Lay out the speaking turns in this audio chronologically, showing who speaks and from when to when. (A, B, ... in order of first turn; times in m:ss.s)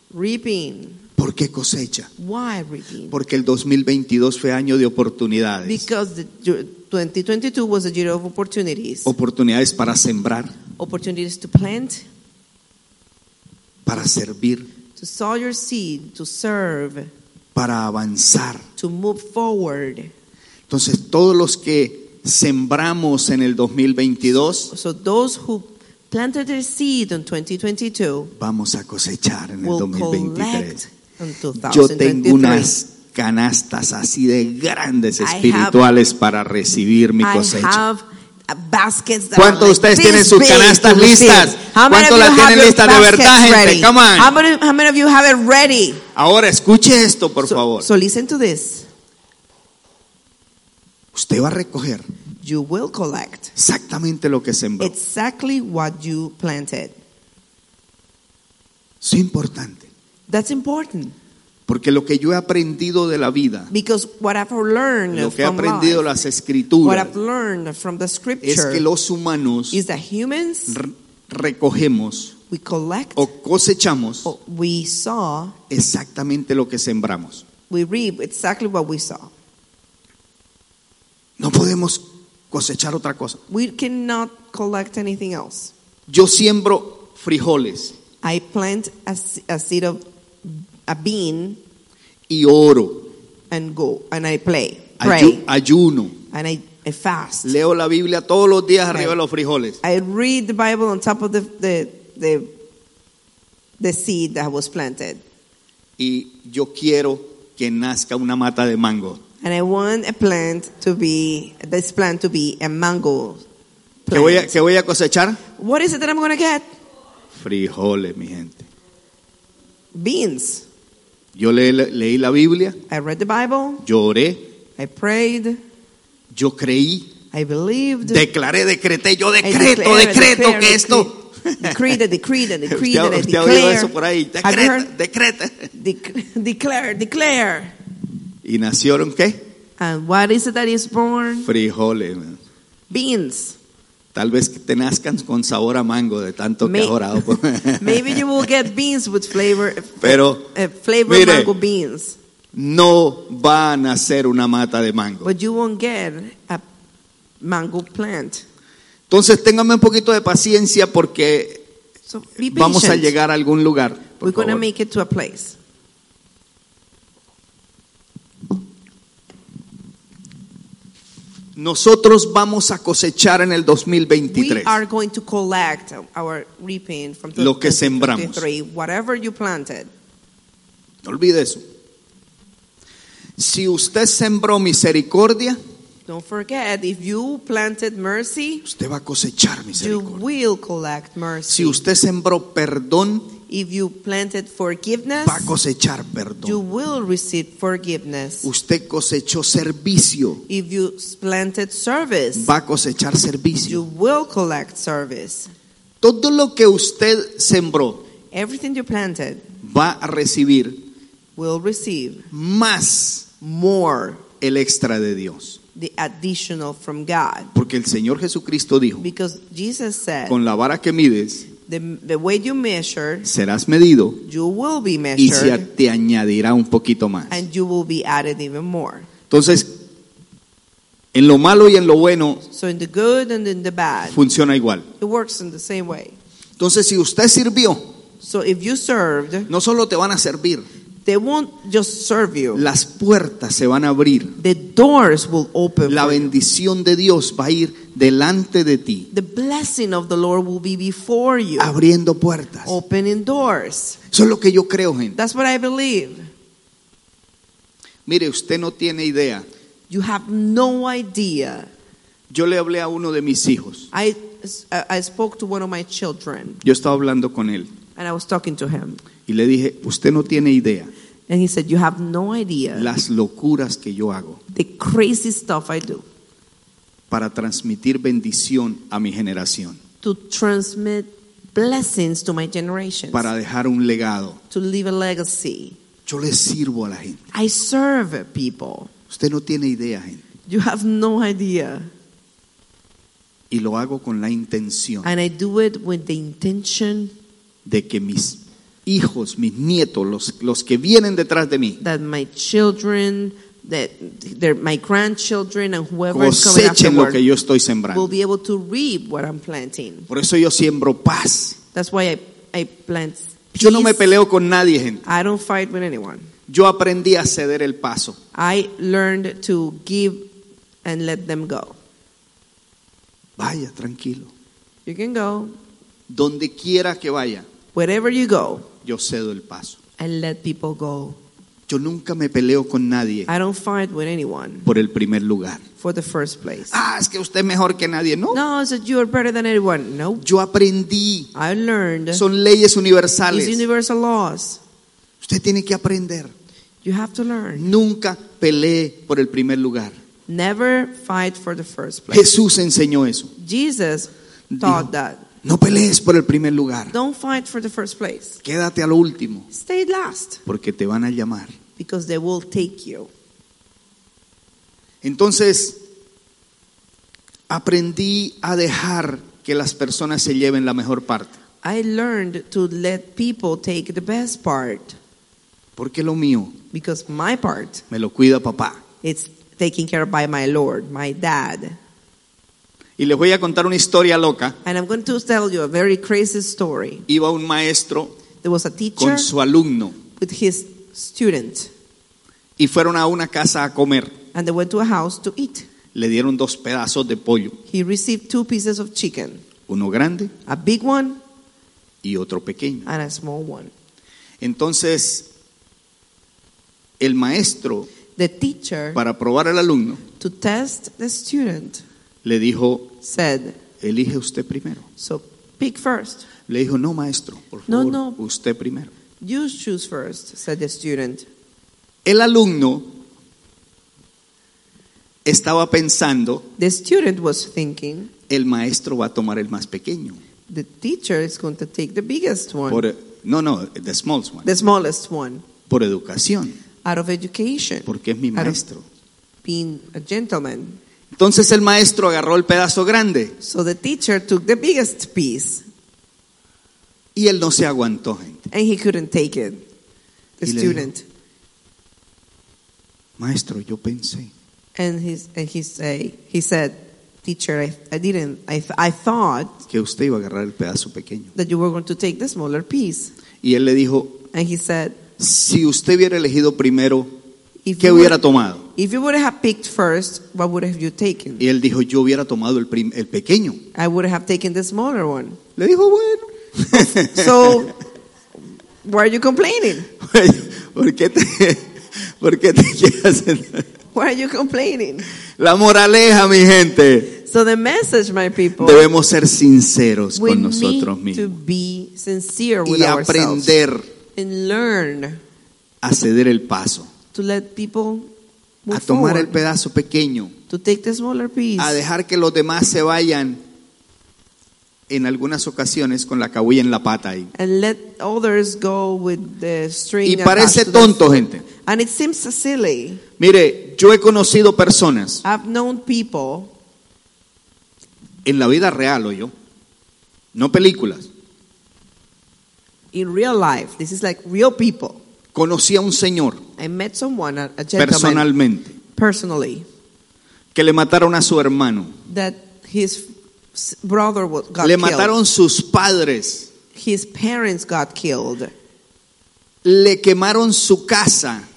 0:00.1-0:01.0 A
0:01.2-0:02.1 B
0:02.2-0:03.2 A
0:03.1-0:05.9 B
0:05.6-0:09.1 A
0:09.0-0:10.5 B
0:10.8-0:12.0 A
0:13.8-0:14.7 B
0:15.0-0:17.1 A
0:17.5-0:18.6 B
0:18.8-0:20.1 A
0:20.7-0:24.7 B
0:24.7-0:28.3 A
0:28.4-0:30.8 B
0:29.6-0:32.7 A
0:31.6-0:37.8 B
0:35.2-0:35.8 A
0:37.2-0:46.0 A
0:39.3-0:44.3 B
0:46.1-0:47.9 B
0:47.4-0:48.9 A
0:51.1-0:52.0 B
0:52.4-0:53.5 A
0:53.6-0:54.9 B
0:54.8-0:56.9 A
0:59.0-0:59.9 B
1:00.3-1:01.1 A
1:01.7-1:03.7 B
1:03.7-1:06.1 A
1:05.1-1:07.1 B
1:06.8-1:08.8 A
1:08.4-1:09.8 B
1:09.7-1:10.8 A
1:10.7-1:12.3 B
1:12.5-1:13.3 A
1:13.2-1:14.3 B
1:14.2-1:15.5 A
1:15.7-1:17.4 B
1:17.7-1:19.3 A
1:21.4-1:23.4 B
1:23.5-1:25.7 A
1:26.1-1:27.9 B
1:28.2-1:31.6 A
1:32.3-1:33.1 B
1:33.5-1:35.4 A
1:35.0-1:36.2 B
1:36.3-1:37.5 A
1:37.4-1:39.8 B
1:39.8-1:42.6 A
1:43.8-1:45.2 A
1:46.0-1:49.2 B
1:49.4-1:53.4 A
1:54.0-1:54.6 A
1:54.1-1:55.4 B
1:55.6-1:56.7 A
1:57.3-1:58.7 B
1:59.9-2:00.6 A
2:01.3-2:02.8 B
2:02.9-2:03.8 A
2:03.8-2:04.4 B
2:04.8-2:05.6 A
2:06.3-2:07.1 B
2:07.3-2:08.2 A
2:08.0-2:12.0 B
2:09.4-2:14.9 A
2:12.6-2:15.7 B
2:15.7-2:17.7 A
2:18.4-2:19.4 B
2:19.8-2:21.5 A
2:21.4-2:22.4 B
2:22.9-2:23.6 A
2:24.1-2:28.2 B
2:26.6-2:32.2 A
2:30.0-2:30.5 B
2:31.0-2:31.5 B
2:32.5-2:35.3 B
2:35.2-2:36.6 A
2:37.4-2:38.4 A
2:39.1-2:41.6 B
2:42.1-2:43.1 A
2:42.4-2:44.6 B
2:44.2-2:45.6 A
2:51.6-2:54.8 B
2:54.3-2:59.9 A
2:57.4-2:58.4 B
3:01.0-3:01.6 B
3:03.4-3:05.6 B
3:06.1-3:08.7 A
3:08.6-3:10.2 B
3:09.8-3:11.8 A
3:11.5-3:13.3 B
3:13.5-3:15.5 A
3:15.2-3:16.6 B
3:16.4-3:18.5 A
3:18.4-3:20.4 B
3:20.5-3:22.5 A
3:22.3-3:23.8 B
3:23.6-3:25.5 A
3:26.0-3:28.0 B
3:28.3-3:29.4 A
3:29.6-3:30.8 B
3:31.4-3:32.3 A
3:32.3-3:33.3 B
3:33.4-3:34.2 A
3:34.4-3:35.6 B
3:35.7-3:37.5 A
3:37.5-3:39.1 B
3:39.0-3:40.4 A
3:40.2-3:41.5 B
3:41.6-3:43.3 A
3:43.2-3:44.2 B
3:44.2-3:45.6 A
3:45.2-3:47.4 B
3:47.3-3:49.1 A
3:49.3-3:49.8 B
3:51.1-3:52.4 B
3:52.5-3:54.2 A
3:54.1-3:54.9 B
3:55.0-3:56.2 A
3:56.6-3:57.9 B
3:58.2-3:59.5 A
3:59.5-4:00.6 B
4:01.0-4:02.6 A
4:02.5-4:04.4 B
4:04.4-4:06.3 A
4:05.9-4:09.1 B
4:09.1-4:11.7 A
4:11.6-4:12.7 B
4:12.6-4:14.0 A
4:14.1-4:15.2 B
4:15.1-4:16.3 A
4:18.0-4:19.4 B
4:19.9-4:21.7 A
4:22.3-4:23.9 B
4:23.9-4:26.6 A
4:26.6-4:27.7 B
4:28.0-4:29.0 A
4:29.2-4:30.9 B
4:31.3-4:32.9 A
4:32.7-4:34.4 B
4:34.5-4:36.0 A
4:37.1-4:39.8 B
4:40.0-4:43.3 A
4:43.1-4:44.4 B
4:44.5-4:45.8 A
4:46.0-4:47.2 B
4:47.3-4:48.9 A
4:49.1-4:50.2 B
4:50.5-4:51.9 A
4:53.5-4:55.1 B
4:55.0-4:57.1 A
4:57.6-5:01.8 B
5:01.8-5:07.2 A
5:06.1-5:08.1 B
5:07.9-5:10.1 A
5:10.1-5:11.6 B
5:11.7-5:14.0 A
5:13.6-5:15.0 B
5:15.0-5:16.3 A
5:16.5-5:18.2 B
5:18.3-5:20.3 A
5:20.8-5:21.8 A
5:23.4-5:24.3 B
5:24.8-5:25.6 A
5:26.1-5:27.5 B
5:27.7-5:28.7 A
5:28.8-5:29.8 B
5:30.0-5:31.2 A
5:31.7-5:33.3 B
5:33.3-5:34.7 A
5:34.6-5:35.6 B
5:35.8-5:36.8 A
5:36.7-5:38.4 B
5:38.3-5:40.2 A
5:40.2-5:41.3 B
5:41.3-5:42.2 A
5:42.1-5:43.6 B
5:43.3-5:44.6 A
5:45.2-5:46.3 B
5:46.8-5:47.7 A
5:47.5-5:50.0 B
5:50.3-5:52.3 A
5:52.1-5:53.3 B
5:53.4-5:55.2 A
5:54.5-5:54.9 B
5:55.4-5:56.9 B
5:56.9-5:58.4 A
5:58.4-5:59.5 B
5:59.5-6:00.4 A
6:00.4-6:01.5 B
6:01.8-6:03.1 A
6:05.0-6:05.8 B
6:07.5-6:11.4 B
6:11.6-6:15.0 A
6:15.8-6:16.6 B
6:16.7-6:17.8 A
6:17.9-6:18.8 B
6:19.0-6:21.8 A
6:23.0-6:24.6 B
6:24.6-6:27.1 A
6:27.1-6:28.1 B
6:28.4-6:29.3 A
6:29.0-6:30.0 B
6:30.2-6:31.7 A
6:32.6-6:34.2 B
6:34.3-6:35.7 A
6:35.9-6:37.6 B
6:37.7-6:39.4 A
6:39.7-6:40.3 B
6:40.4-6:41.2 A
6:42.0-6:42.9 B
6:42.8-6:43.7 A
6:44.4-6:45.3 B
6:47.0-6:47.9 B
6:48.1-6:49.0 A
6:48.9-6:50.0 B
6:50.2-6:51.8 A
6:52.2-6:52.9 B
6:53.0-6:53.6 A
6:53.8-6:54.8 B
6:55.0-6:56.3 A
6:56.5-6:58.9 B
6:57.7-6:58.2 A
6:59.2-7:01.2 A
7:02.0-7:03.0 B
7:05.2-7:06.4 B
7:06.6-7:08.1 A
7:08.3-7:10.2 B
7:10.5-7:12.8 A
7:12.7-7:14.5 B
7:14.4-7:15.4 A
7:15.7-7:16.6 B
7:16.8-7:18.6 A
7:17.8-7:18.8 B
7:19.4-7:20.8 A
7:21.1-7:23.4 B
7:23.4-7:25.6 A
7:27.1-7:28.4 B
7:28.5-7:29.6 A
7:30.4-7:31.0 A
7:30.4-7:30.9 B
7:33.2-7:34.3 B
7:34.8-7:39.6 A
7:39.7-7:41.3 B
7:41.3-7:43.1 A
7:43.4-7:44.2 B
7:44.3-7:45.0 A
7:45.2-7:47.1 B
7:47.6-7:48.2 A
7:47.8-7:48.6 B
7:48.7-7:51.4 A
7:51.4-7:53.6 B
7:53.7-7:55.4 A
7:55.6-7:57.7 B
7:56.7-7:57.8 A
7:58.8-7:59.9 A
8:00.0-8:03.6 B
8:03.9-8:05.1 A
8:05.4-8:07.1 B
8:07.1-8:08.9 A
8:08.6-8:11.4 B
8:10.1-8:13.6 A
8:12.6-8:13.9 B
8:14.1-8:15.2 A
8:15.8-8:16.9 B
8:17.1-8:18.1 A
8:18.6-8:19.4 A
8:18.7-8:20.3 B
8:20.5-8:21.8 A
8:21.6-8:23.4 B
8:24.9-8:27.3 B
8:27.3-8:33.0 A
8:30.0-8:31.4 B
8:33.2-8:35.2 B
8:35.2-8:36.5 A
8:38.2-8:39.3 B
8:40.3-8:41.1 B
8:42.9-8:45.0 A
8:45.3-8:46.4 B
8:46.6-8:48.3 A
8:47.8-8:48.7 B
8:48.9-8:49.6 A
8:50.5-8:51.9 B
8:52.1-8:55.1 A
8:54.6-8:56.5 B
8:56.7-8:58.5 A
8:59.6-9:01.5 B